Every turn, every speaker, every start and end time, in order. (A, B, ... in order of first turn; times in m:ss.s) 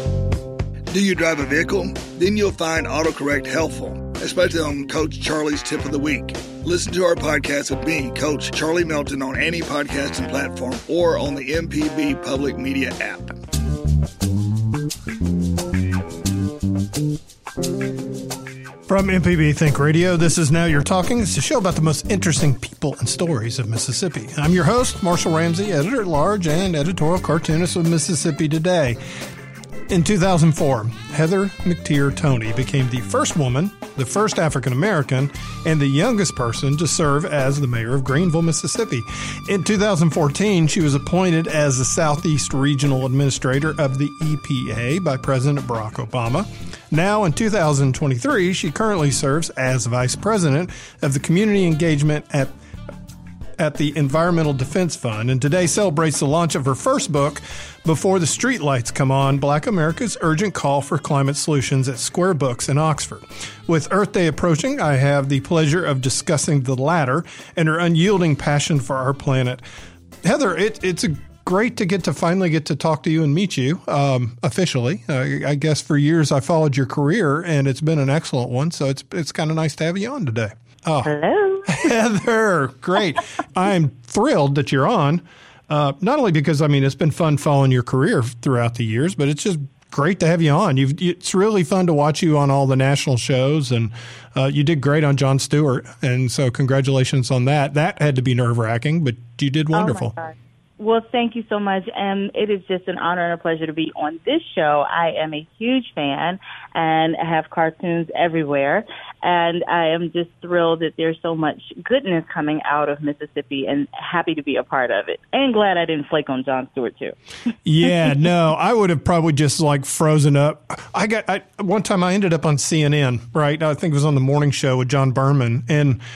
0:00.9-0:13.4 A
0:18.9-0:29.0 B
0:29.9-0:52.5 B
0:53.6-1:09.6 B
1:10.2-1:21.1 B
1:21.0-1:21.8 C
1:21.6-1:40.1 B
1:39.7-1:57.1 C
1:57.6-2:06.0 B